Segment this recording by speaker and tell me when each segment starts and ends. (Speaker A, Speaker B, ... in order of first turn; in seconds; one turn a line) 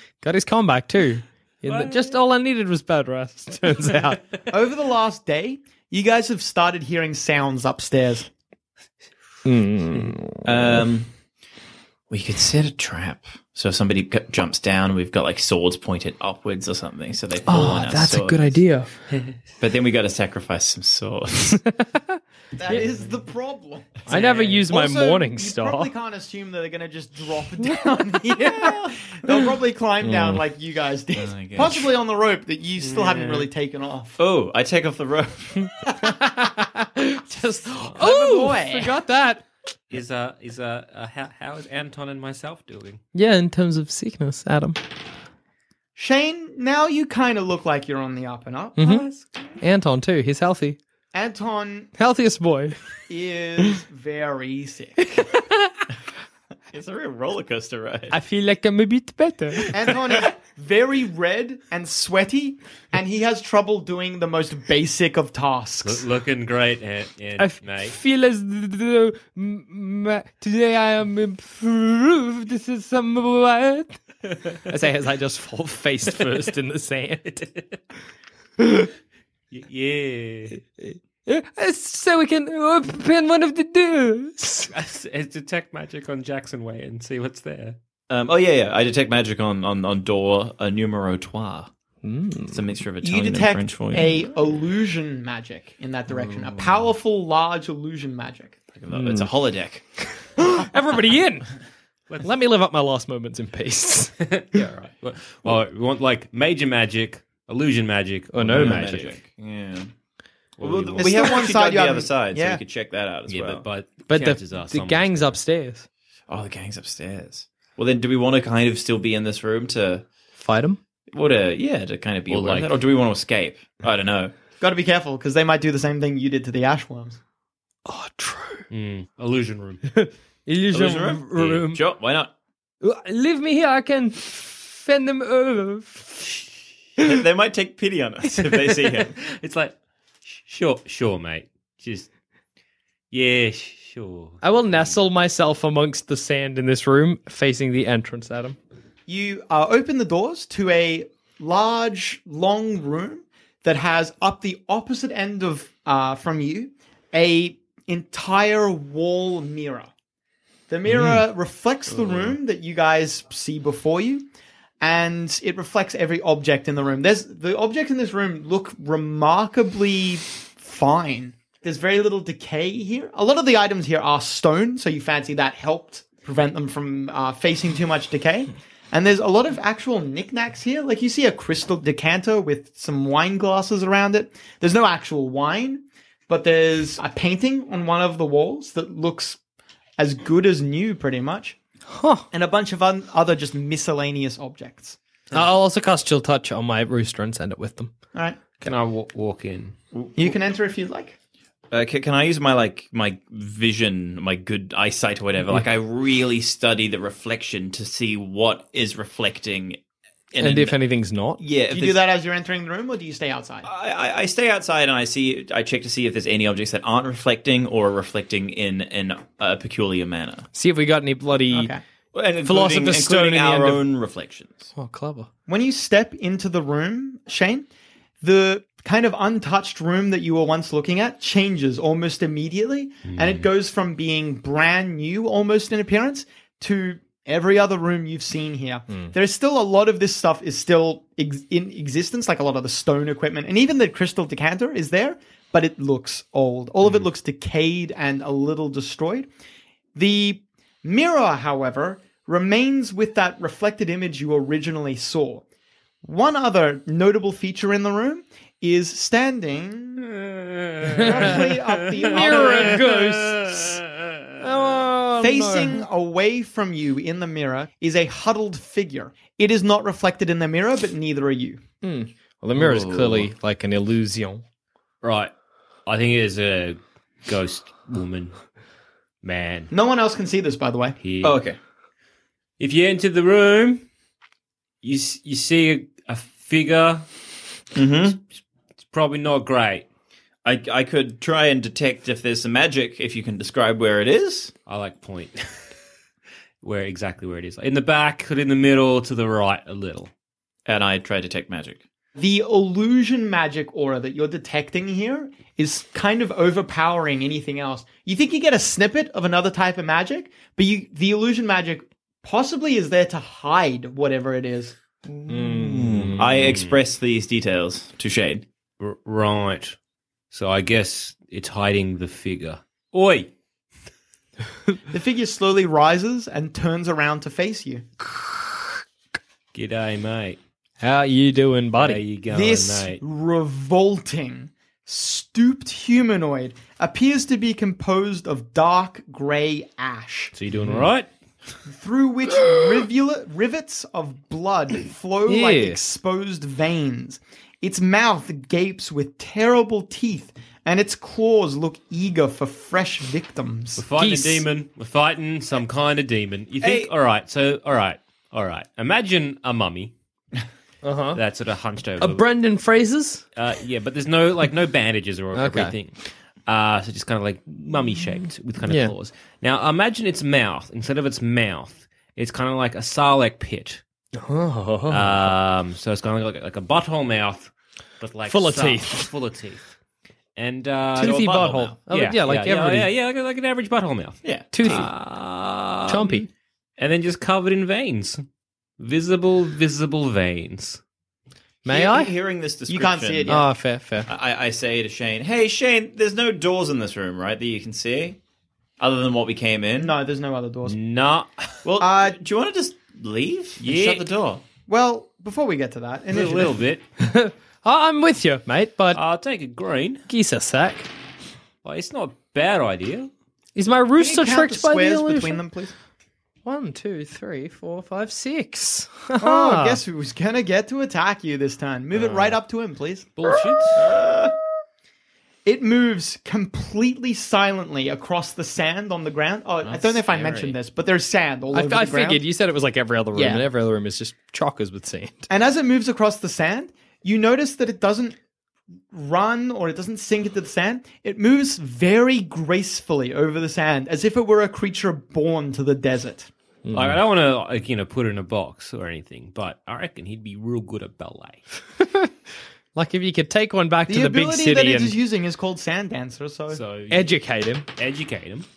Speaker A: 0.2-4.2
Speaker B: 1.7-2.1
Speaker C: 4.5-8.3
Speaker A: 9.4-10.5
Speaker D: 10.4-11.1
Speaker D: 12.1-18.6
Speaker A: 17.5-18.9
Speaker B: 19.1-19.4
Speaker D: 19.6-21.6
Speaker A: 21.6-22.2
Speaker C: 22.6-24.1
Speaker A: 24.1-25.9
Speaker B: 24.1-24.6
Speaker C: 24.7-34.2
Speaker D: 28.4-28.9
Speaker A: 30.0-30.4
Speaker D: 31.1-31.9
Speaker B: 32.8-33.5
Speaker D: 34.2-35.7
Speaker A: 36.0-39.4
Speaker C: 37.9-38.9
Speaker B: 39.9-43.0
Speaker A: 43.1-44.8
Speaker C: 46.0-48.8
Speaker A: 48.8-49.1
Speaker B: 48.8-49.5
Speaker A: 49.6-50.8
Speaker C: 51.1-51.9
Speaker A: 52.0-52.8
Speaker C: 53.1-55.1
Speaker A: 55.1-55.5
Speaker D: 56.7-58.1
Speaker A: 58.1-59.7
Speaker C: 59.7-66.0
Speaker B: 65.8-68.0
Speaker A: 67.4-74.0
Speaker A: 74.7-77.3
Speaker B: 77.3-77.7
Speaker A: 78.6-78.9
Speaker B: 79.5-80.6
Speaker A: 80.8-84.7
Speaker B: 84.7-87.8
Speaker D: 88.1-91.7
Speaker A: 92.0-92.6
Speaker D: 92.5-94.1
Speaker C: 93.0-98.6
Speaker D: 98.7-99.8
Speaker A: 98.9-99.3
Speaker A: 100.3-101.5
Speaker A: 102.2-104.7
Speaker B: 104.2-109.1
Speaker A: 108.3-109.1
Speaker D: 108.5-109.9
Speaker B: 110.6-111.4
Speaker D: 110.6-113.6
Speaker C: 111.0-112.6
Speaker B: 113.3-115.3
Speaker A: 114.1-115.8
Speaker D: 116.3-120.0
Speaker A: 120.4-120.8
Speaker D: 121.1-124.3
Speaker B: 122.3-122.7
Speaker C: 124.6-127.2
Speaker A: 127.8-128.6
Speaker B: 128.7-129.8
Speaker A: 129.9-131.8
Speaker D: 130.7-132.3
Speaker A: 132.8-136.4
Speaker D: 137.0-139.1
Speaker B: 138.4-139.7
Speaker B: 140.2-142.1
Speaker B: 143.1-144.9
Speaker A: 144.4-148.6
Speaker C: 149.1-159.9
Speaker C: 160.7-164.3
Speaker C: 164.8-189.4
Speaker C: 190.0-191.6
Speaker A: 191.9-192.2
Speaker C: 192.3-195.0
Speaker A: 195.3-197.9
Speaker C: 198.1-198.4
Speaker B: 198.6-199.8
Speaker D: 199.9-200.3
Speaker C: 200.2-201.2
Speaker D: 201.7-209.8
Speaker D: 210.3-210.8
Speaker A: 210.4-211.4
Speaker D: 211.4-212.0
Speaker C: 211.7-213.7
Speaker D: 213.6-220.5
Speaker A: 220.5-221.7
Speaker C: 221.5-221.8
Speaker D: 222.1-224.7
Speaker A: 222.4-223.8
Speaker A: 224.7-225.3
Speaker C: 225.5-227.7
Speaker C: 228.2-249.3
Speaker B: 233.1-233.4
Speaker C: 249.9-255.4
Speaker C: 256.0-260.1
Speaker B: 260.1-264.2
Speaker A: 260.9-261.4
Speaker C: 261.0-263.0
Speaker A: 262.0-263.7
Speaker A: 264.4-265.9
Speaker C: 265.2-271.6
Speaker A: 271.8-274.4
Speaker D: 272.6-273.3
Speaker B: 275.0-275.3
Speaker B: 275.9-278.3
Speaker B: 279.2-279.7
Speaker C: 279.7-281.0
Speaker B: 281.0-281.4
Speaker D: 281.2-281.6
Speaker B: 282.6-283.8
Speaker B: 284.8-287.1
Speaker D: 287.7-288.2
Speaker B: 288.9-289.9
Speaker D: 290.4-294.5
Speaker B: 294.7-295.4
Speaker B: 296.6-300.1
Speaker D: 300.6-301.8
Speaker C: 302.1-314.8
Speaker D: 315.1-318.4
Speaker A: 315.3-316.5
Speaker B: 316.3-316.8
Speaker B: 318.8-319.8
Speaker B: 320.3-323.3
Speaker C: 324.9-327.8
Speaker B: 329.5-330.4
Speaker A: 330.8-332.0
Speaker B: 331.8-333.0
Speaker C: 332.3-340.3
Speaker B: 340.4-341.1
Speaker A: 340.5-340.9
Speaker C: 341.6-353.8
Speaker A: 345.3-345.8
Speaker B: 353.8-359.9
Speaker A: 353.9-354.4
Speaker D: 356.6-356.9
Speaker A: 360.8-361.2
Speaker B: 361.1-362.2
Speaker A: 362.0-363.2
Speaker B: 363.4-373.8
Speaker A: 365.3-365.7
Speaker A: 368.7-368.9
Speaker A: 374.1-375.3
Speaker B: 374.9-379.7
Speaker A: 378.3-379.1
Speaker B: 380.4-386.2
Speaker D: 380.9-381.8
Speaker A: 381.0-382.9
Speaker D: 384.2-384.9
Speaker A: 384.5-384.9
Speaker A: 385.9-386.3
Speaker B: 386.8-388.2
Speaker B: 388.8-390.8
Speaker A: 391.6-392.1
Speaker D: 391.6-393.5
Speaker C: 392.7-393.5
Speaker A: 393.3-394.1
Speaker D: 394.1-398.2
Speaker D: 398.8-399.9
Speaker C: 399.8-400.8
Speaker B: 400.6-401.6
Speaker D: 401.6-404.4
Speaker C: 401.8-402.2
Speaker B: 403.6-404.1
Speaker C: 404.7-406.6
Speaker B: 406.1-406.8
Speaker A: 407.0-409.0
Speaker B: 408.9-410.0
Speaker A: 410.1-410.9
Speaker B: 411.6-413.1
Speaker A: 413.6-415.4
Speaker C: 414.0-415.7
Speaker A: 416.4-419.8
Speaker C: 419.2-423.1
Speaker B: 421.9-422.4
Speaker B: 423.2-423.8
Speaker D: 423.8-424.3
Speaker C: 425.4-432.2
Speaker D: 429.6-430.6
Speaker A: 431.5-435.3
Speaker C: 433.1-433.4
Speaker C: 435.3-438.2
Speaker C: 438.9-446.3
Speaker A: 446.6-447.0
Speaker B: 446.7-451.4
Speaker A: 451.8-452.1
Speaker A: 452.7-454.9
Speaker C: 453.9-456.6
Speaker B: 456.5-457.2
Speaker A: 456.9-457.6
Speaker B: 457.8-458.5